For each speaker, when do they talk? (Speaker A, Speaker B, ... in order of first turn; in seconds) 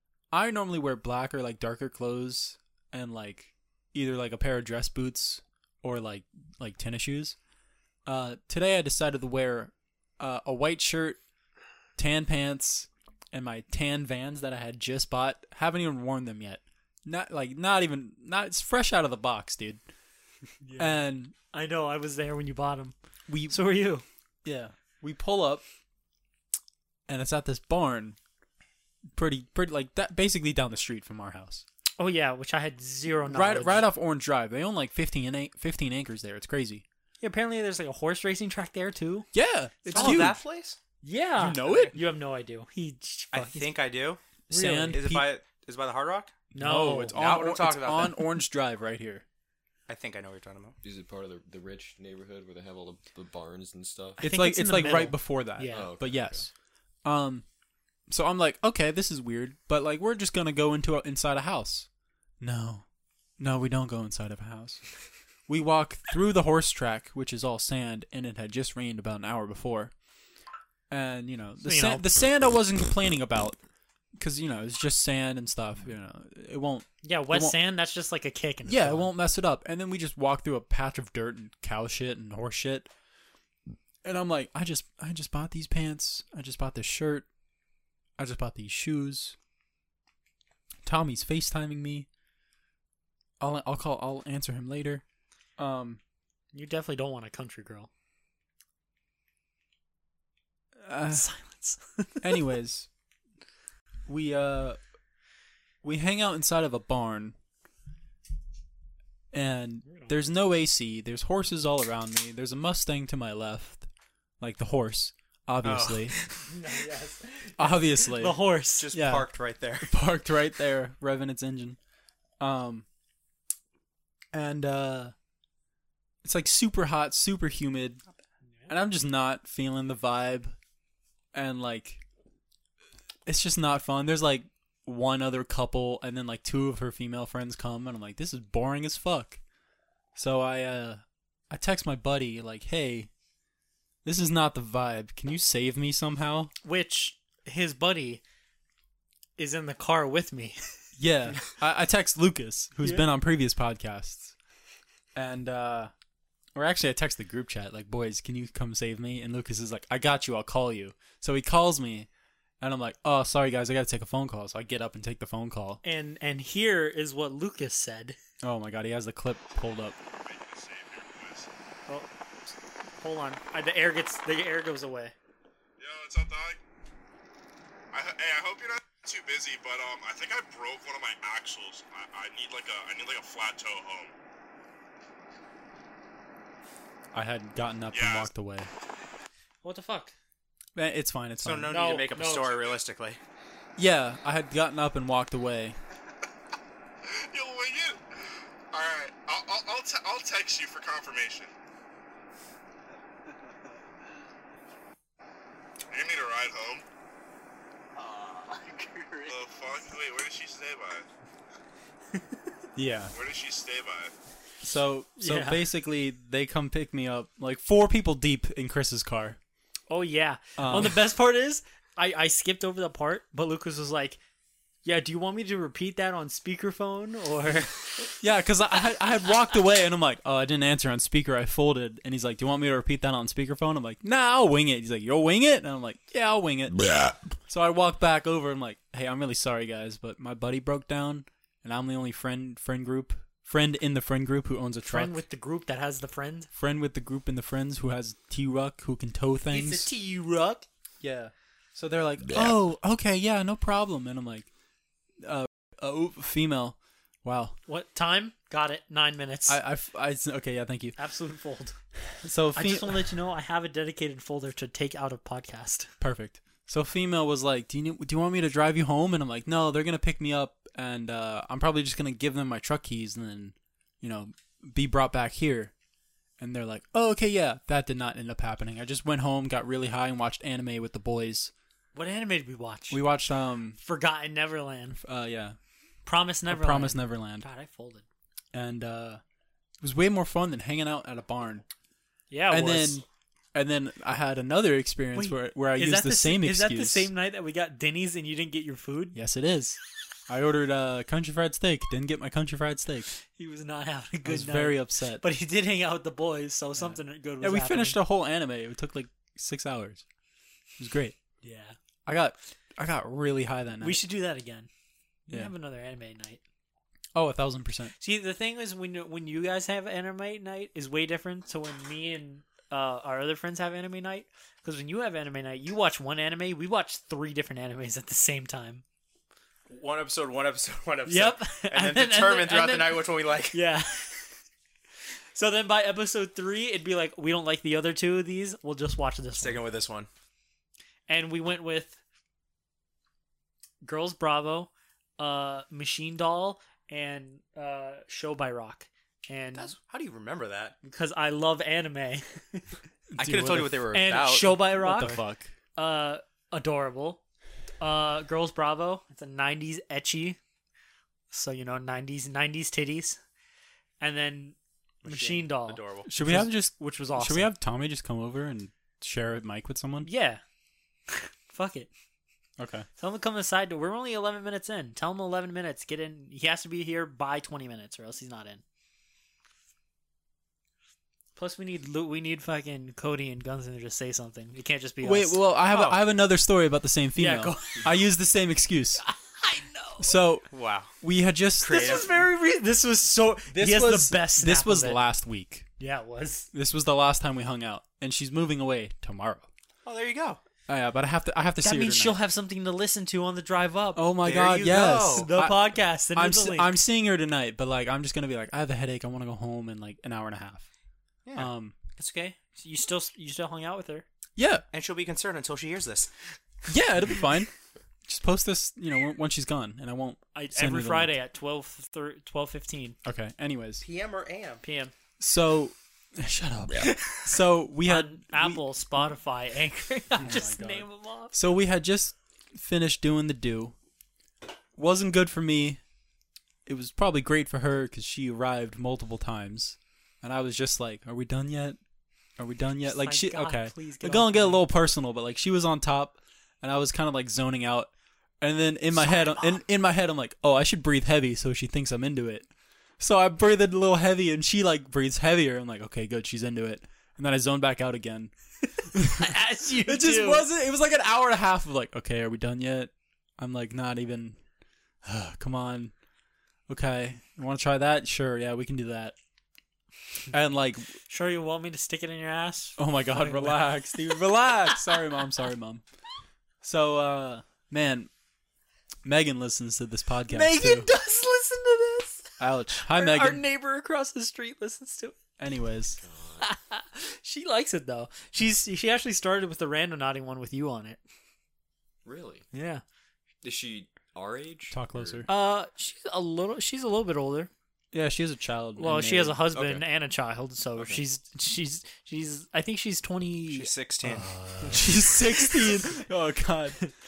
Speaker A: 0.3-7.3, 8.1-11.2, 12.0-19.8, 20.8-21.3, 23.3-23.6, 24.4-25.6, 27.1-28.2, 29.1-31.6, 33.3-36.8, 39.3-40.4, 41.4-42.0, 44.5-45.3, 46.5-49.2, 54.2-56.5, 57.0-57.4, 58.1-61.9, 62.4-62.8, 63.4-64.8, 65.5-69.9, 70.9-73.6, 74.2-77.6, 78.7-82.9, 84.0-87.2, 88.2-89.3, 90.8-92.1, 93.4-95.0, 95.6-96.0, 100.8-101.3, 102.2-102.9, 104.1-104.8, 105.8-107.3, 109.3-113.9, 114.4-116.1, 117.6-118.4, 118.9-119.3, 119.8-121.8, 122.4-122.8, 124.3-125.1, 126.2-128.0, 128.7-130.6, 131.3-132.0, 133.2-139.4, 140.2-143.1, 144.0-146.5, 151.0-154.3, 155.1-155.9, 156.6-162.1, 162.6-165.8, 168.4-170.0, 187.1-188.7, 190.8-191.7, 193.8-195.8, 212.8-213.1, 214.6-219.4, 220.6-221.0, 228.2-245.1, 246.5-249.9, 251.0-254.5, 255.2-257.6, 259.5-261.0, 262.2-263.1, 266.0-275.7, 276.4-281.5, 282.9-283.8, 285.0-285.6, 286.5-287.5, 288.5-289.2, 289.8-291.6, 292.5-297.1, 299.1-303.1, 304.2-305.2, 306.8-310.0, 310.8-311.2, 312.1-314.0, 317.1-317.9, 353.2-353.7, 354.7-355.5, 366.1-370.1, 372.6-372.9, 385.0-389.0, 390.0-390.5, 391.0-392.1, 393.5-395.6, 396.5-399.4, 400.7-402.2, 403.9-410.6, 411.4-411.7, 414.4-414.6, 416.7-417.5, 418.1-421.1, 423.0-423.8, 425.2-428.6, 430.2-433.7, 434.8-435.8, 436.6-441.8, 442.4-447.9, 448.4-452.5, 453.0-458.3, 458.9-464.4, 465.0-465.9, 466.7-469.1, 470.3-470.9, 472.8-475.8, 476.6-478.1, 479.0-480.9, 482.4-483.4, 485.4-486.0, 494.7-495.3, 497.9-499.4, 504.1-506.8
Speaker B: 20.6-22.9, 23.5-24.0, 32.0-33.9, 37.2-39.3, 39.8-40.3, 41.0-43.8, 44.5-45.0, 46.5-47.2, 54.2-55.9, 71.6-72.0, 77.0-79.1, 96.5-97.9, 101.1-102.2, 116.5-118.9, 146.6-148.2, 149.4-150.6, 165.8-168.2, 172.9-175.1, 189.6-190.1, 191.7-192.6, 215.2-215.7, 219.9-224.2, 224.8-228.1, 244.8-246.5, 249.5-250.6, 257.7-259.6, 261.0-261.8, 262.6-265.9, 281.9-283.0, 283.8-285.0, 286.0-288.0, 292.3-293.0, 295.1-299.1, 303.3-308.0, 311.4-311.8, 313.8-314.7, 315.3-316.4, 318.0-328.8, 331.1-334.3, 335.3-339.6, 341.1-342.0, 343.8-349.7, 350.8-352.6, 353.9-355.2, 355.8-357.2, 357.8-360.4, 361.3-363.2, 364.0-367.5, 370.0-370.4, 371.1-371.9, 373.0-378.6, 381.4-385.4, 387.2-387.9, 389.0-390.1, 391.6-395.0, 395.8-396.5, 401.6-404.1, 405.1-406.7, 412.0-414.1, 420.3-423.0, 424.6-424.9, 427.8-431.3, 442.8-444.6, 448.9-449.6, 459.0-460.4, 471.1-474.0, 480.3-485.2, 486.4-491.0, 492.5-492.8, 495.3-497.5, 498.8-503.7, 504.6-504.9, 505.4-505.8
Speaker C: 39.9-40.8, 41.6-41.9, 43.3-44.2, 44.9-46.3, 47.1-48.2, 49.9-50.8, 115.6-116.5, 118.7-119.9, 191.4-193.2, 208.5-209.2, 329.7-333.6, 339.4-340.1, 349.5-350.8, 353.1-354.6, 365.0-366.1, 385.7-386.0, 390.5-390.9, 391.6-392.1, 399.8-400.4, 404.2-405.3, 414.7-416.1, 423.8-424.6, 503.5-504.3
Speaker D: 50.8-54.2, 55.7-56.4, 486.0-486.5, 492.0-492.4, 493.4-495.3, 499.5-499.9, 500.8-501.0
Speaker E: 170.2-171.5, 175.8-176.6, 177.9-184.1, 187.9-188.3, 197.1-201.5, 205.9-206.8, 209.3-211.1, 213.1-214.1